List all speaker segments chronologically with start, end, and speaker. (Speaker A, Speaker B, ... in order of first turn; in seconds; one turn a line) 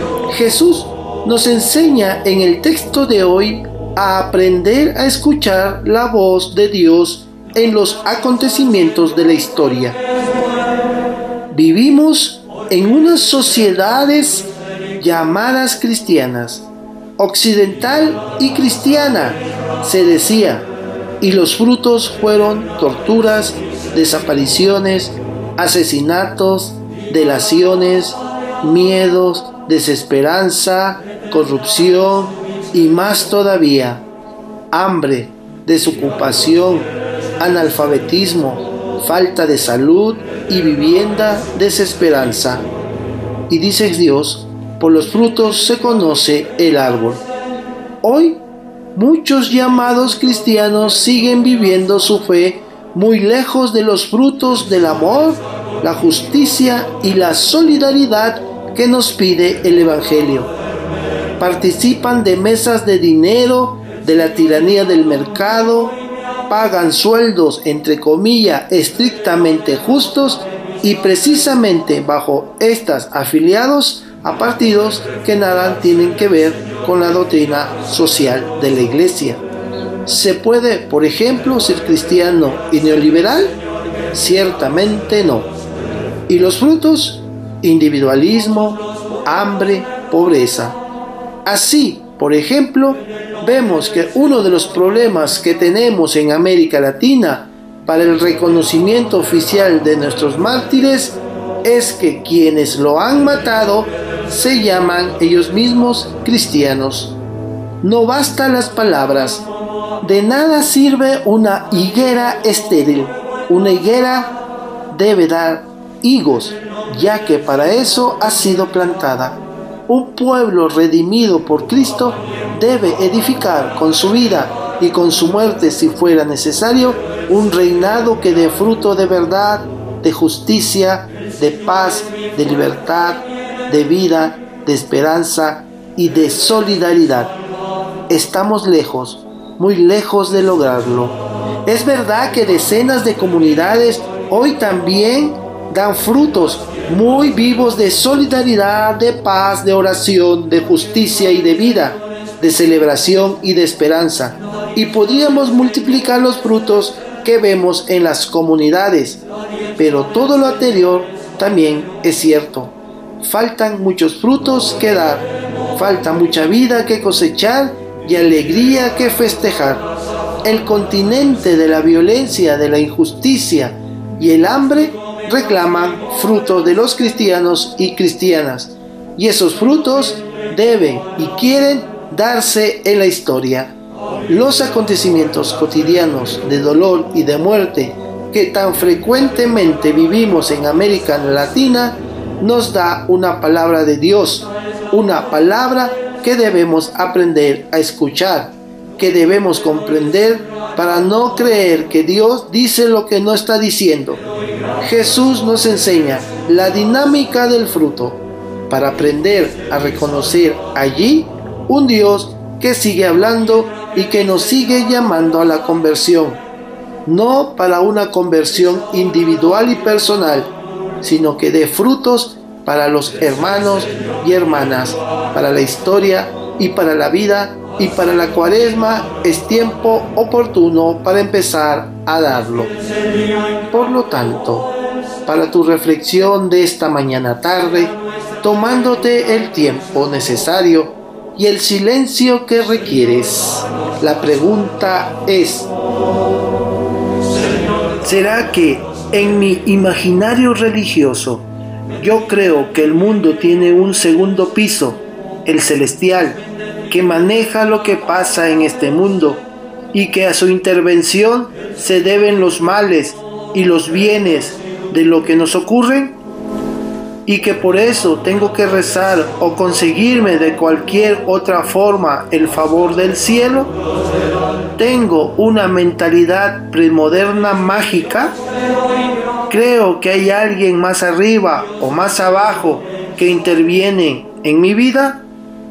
Speaker A: 0.3-10.0
Speaker A: 11.5-16.6
Speaker A: 17.2-20.7
Speaker A: 21.2-34.0
Speaker A: 34.7-42.6
Speaker A: 43.5-47.2
Speaker A: 48.0-48.4
Speaker A: 48.9-60.5
Speaker A: 61.4-66.0
Speaker A: 66.5-79.4
Speaker A: 80.0-83.6
Speaker A: 84.1-85.5
Speaker A: 86.3-90.8
Speaker A: 91.4-107.1
Speaker A: 107.8-109.5
Speaker A: 110.0-114.3
Speaker A: 114.9-137.3
Speaker A: 138.1-159.2
Speaker A: 159.8-169.9
Speaker A: 170.4-183.7
Speaker A: 184.3-204.2
Speaker A: 204.8-216.4
Speaker A: 217.1-232.7
Speaker A: 233.7-234.7
Speaker A: 235.2-245.7
Speaker A: 248.0-251.4
Speaker A: 252.0-266.1
Speaker A: 267.2-273.7
Speaker A: 274.8-278.4
Speaker A: 279.5-285.2